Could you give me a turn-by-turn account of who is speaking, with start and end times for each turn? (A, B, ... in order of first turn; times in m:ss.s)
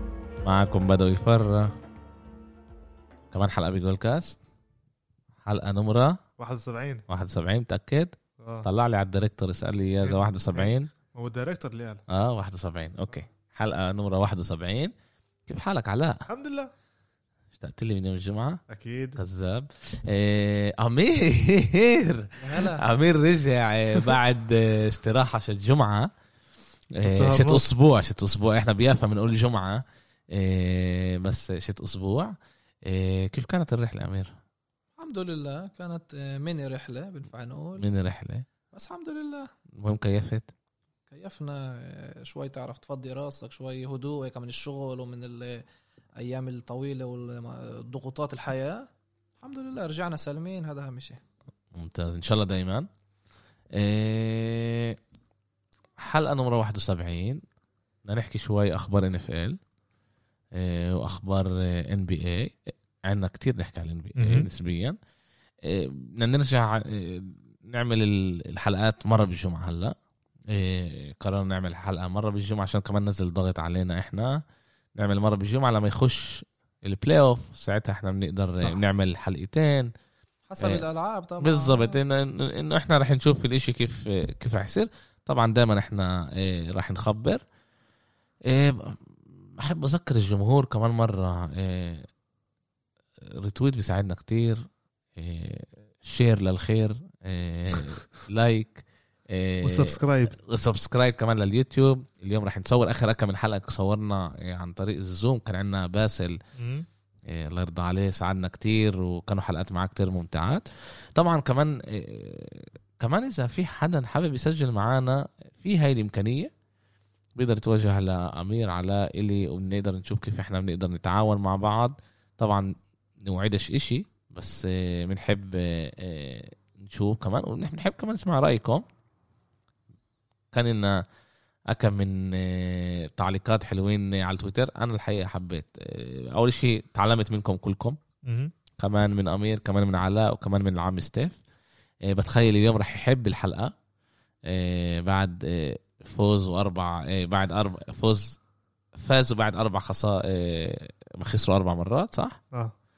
0:00.4-0:01.7 A
0:03.3-0:04.4 A
0:05.4-0:06.2 A
0:06.4-0:07.0 B
0:07.1-0:10.9 A
0:08.4-0:08.7 B
0:10.0-0:12.0 B
0:12.1-0:14.9 A
0:15.5-0:16.3 A
0:16.3-0:16.7 B
0:17.6-0:18.6 A
0:18.7-0:19.2 B
0:19.2-0:26.1 A
0:22.4-0:22.8 C
0:26.9-0:34.3 A
0:27.0-0:27.6 B
0:35.0-0:37.8 C
0:37.8-0:38.4 A
0:38.7-0:39.5 C
0:39.7-0:40.5 A
0:41.1-0:45.6 C
0:46.2-0:48.9 C
0:49.4-0:51.2 C
0:51.7-0:52.9 A
0:53.7-0:55.0 A
0:56.0-0:57.4 A
0:58.0-0:59.6 A
1:00.5-1:05.0 A
1:04.2-1:04.5 B
1:05.6-1:09.9 A
1:10.5-1:14.4 A
1:15.0-1:19.9 A
1:20.5-1:22.0 C
1:20.6-1:20.8 A
1:21.4-1:27.4 A
1:28.4-1:32.1 A
1:33.2-1:34.6 A
1:35.2-1:46.4 A
1:39.6-1:40.3 B
1:46.6-1:46.8 B
1:47.3-1:56.5 A
1:57.4-2:08.8 A
2:10.5-2:11.0 A
2:11.7-2:18.0 A
2:18.2-2:18.5 B
2:18.8-2:21.4 A
2:22.0-2:23.7 A
2:24.4-2:28.4 A
2:28.9-2:32.4 A